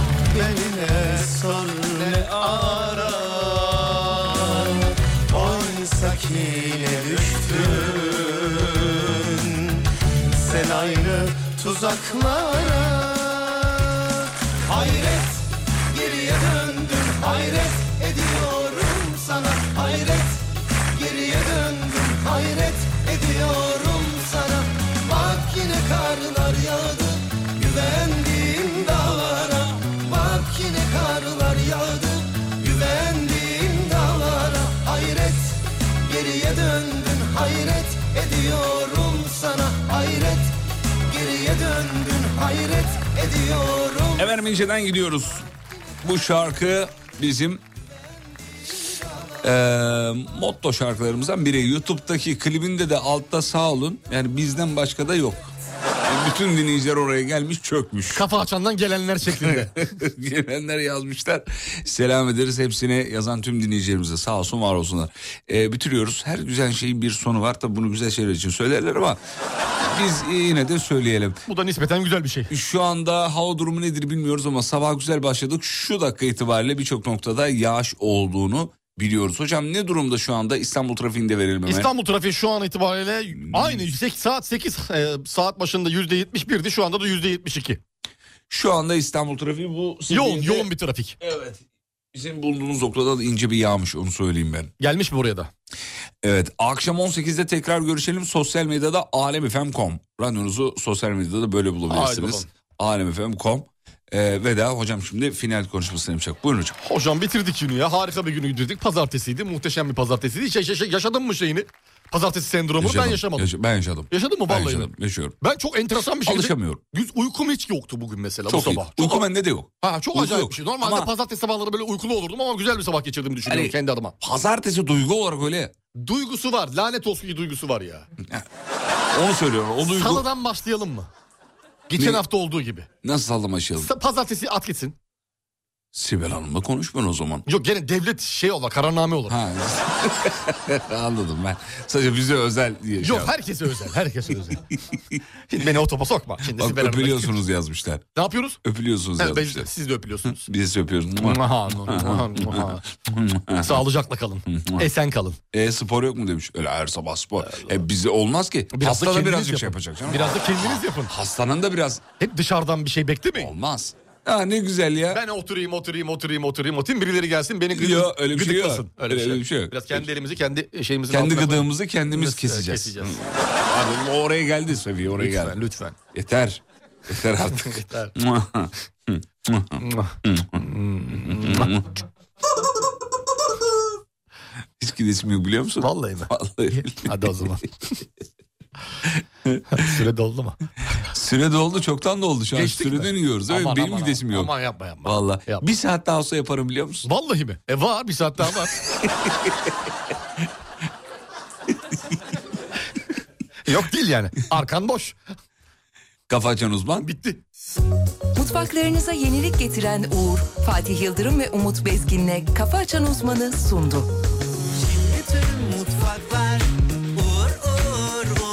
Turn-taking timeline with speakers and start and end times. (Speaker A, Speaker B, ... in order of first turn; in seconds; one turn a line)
Speaker A: 0.2-40.5
Speaker A: 41.1-44.3
Speaker B: 44.2-45.5
Speaker B: 46.0-47.6
Speaker B: 49.4-55.5
Speaker B: 56.0-58.3
Speaker C: 58.1-59.8
Speaker B: 59.3-69.2
Speaker B: 69.8-71.4
Speaker C: 71.5-72.5
Speaker B: 72.5-81.9
Speaker C: 81.7-87.8
Speaker B: 83.3-83.9
Speaker B: 88.5-91.6
Speaker C: 90.1-91.2
Speaker B: 92.1-94.7
Speaker C: 94.8-95.5
Speaker B: 96.2-106.8
Speaker C: 101.9-102.5
Speaker C: 106.8-113.5
Speaker B: 112.8-115.3
Speaker C: 114.1-114.9
Speaker C: 115.4-119.3
Speaker B: 116.2-116.8
Speaker B: 118.5-121.1
Speaker C: 119.8-124.2
Speaker B: 123.5-125.7
Speaker C: 126.0-128.1
Speaker B: 129.1-130.2
Speaker C: 129.8-131.1
Speaker C: 131.9-132.9
Speaker B: 132.0-132.2
Speaker B: 133.0-133.9
Speaker C: 133.8-135.0
Speaker B: 135.9-137.4
Speaker C: 137.5-139.4
Speaker B: 139.3-143.3
Speaker C: 143.0-144.7
Speaker C: 145.5-147.4
Speaker B: 146.5-148.1
Speaker C: 148.2-148.6
Speaker B: 148.6-149.7
Speaker C: 149.2-150.5
Speaker B: 150.4-153.8
Speaker C: 151.2-152.9
Speaker C: 153.6-155.4
Speaker B: 154.5-154.9
Speaker B: 155.5-162.0
Speaker C: 157.4-157.8
Speaker C: 158.7-161.1
Speaker C: 162.2-163.5
Speaker B: 163.3-165.2
Speaker C: 165.1-173.2
Speaker B: 167.7-170.1
Speaker B: 171.1-175.6
Speaker C: 175.2-176.0
Speaker B: 176.1-181.9
Speaker C: 177.8-178.1
Speaker C: 179.8-181.8
Speaker B: 184.8-187.1
Speaker C: 185.8-187.9
Speaker B: 189.2-189.8
Speaker C: 189.7-191.0
Speaker B: 191.1-194.5
Speaker C: 192.6-195.7
Speaker B: 195.0-197.1
Speaker C: 197.1-198.8
Speaker B: 199.2-199.7
Speaker C: 203.7-205.2
Speaker B: 206.3-207.1
Speaker C: 207.0-207.4
Speaker D: 208.3-214.1
Speaker A: 215.2-216.6